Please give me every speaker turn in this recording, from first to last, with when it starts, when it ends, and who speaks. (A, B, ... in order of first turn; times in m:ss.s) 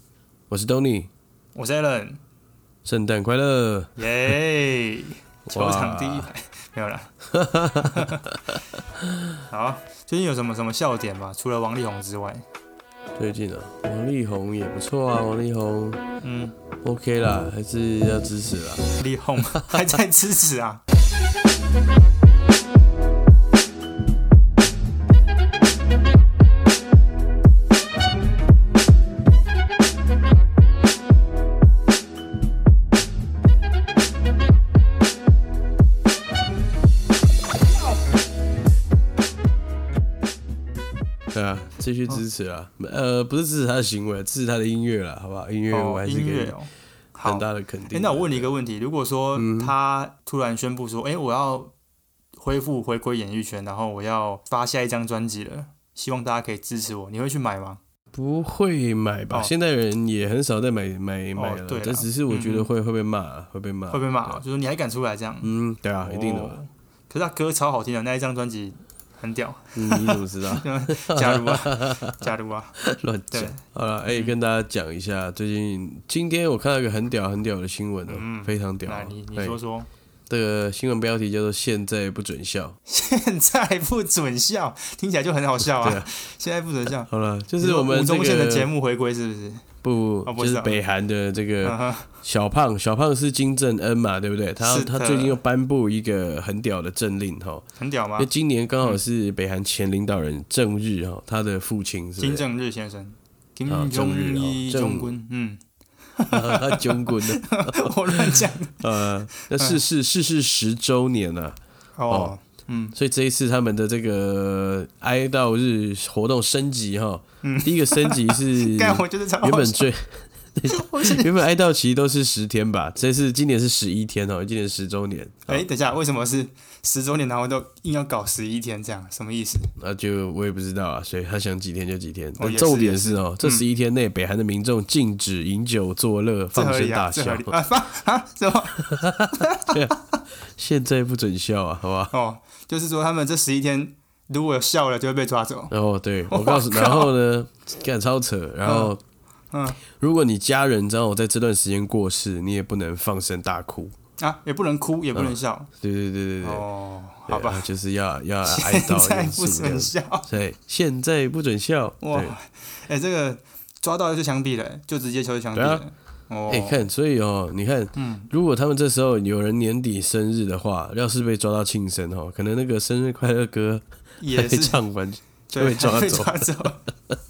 0:00.5-0:01.1 A
0:01.5-0:02.2 B
0:02.8-0:03.9 A
0:04.0-0:07.1 B
0:05.5-0:06.3 A
0:07.3-0:09.3 A
0:07.8-0:08.2 B
0:09.5-0:12.4 B
0:13.2-0:16.0 A
0:16.2-0:16.5 B
0:16.8-0:18.9 A
0:19.0-0:20.8 B
0:41.3-0:46.5 A
0:45.7-0:51.7 B
0:47.2-0:48.5 A
0:49.4-0:49.7 A
0:52.3-0:57.8 B
0:58.1-1:04.4 A
1:01.3-1:02.7 B
1:03.9-1:12.8 B
1:05.4-1:06.6 A
1:09.7-1:12.2 A
1:12.8-1:19.6 A
1:13.3-1:14.4 B
1:18.1-1:19.9 B
1:20.3-1:22.8 A
1:22.8-1:29.6 B
1:25.6-1:26.1 A
1:27.0-1:28.7 A
1:29.8-1:37.6 A
1:30.2-1:30.8 B
1:31.6-1:32.1 B
1:34.6-1:35.4 B
1:37.8-1:38.3 B
1:38.2-1:42.4 A
1:42.2-1:45.6 B
1:43.7-1:45.1 A
1:46.2-1:48.8 B
1:46.3-1:51.6 A
1:49.5-1:49.8 B
1:52.0-1:52.9 B
1:52.1-1:52.3 A
1:52.9-2:05.6 A
1:57.4-1:59.9 B
2:00.7-2:01.3 B
2:05.5-2:09.7 B
2:09.8-2:17.5 A
2:12.4-2:13.6 B
2:16.5-2:20.1 B
2:18.8-2:22.1 A
2:22.1-2:25.7 B
2:25.7-2:29.0 A
2:26.3-2:27.1 B
2:28.6-2:28.9 B
2:29.5-2:29.8 B
2:29.9-2:33.9 A
2:34.2-2:35.7 B
2:35.1-2:36.6 A
2:36.4-2:37.7 B
2:37.3-2:42.3 A
2:38.4-2:40.3 B
2:42.0-2:46.8 B
2:45.5-2:45.8 A
2:46.5-2:56.5 A
2:47.9-2:48.3 B
2:54.2-2:54.8 B
2:55.5-2:56.8 B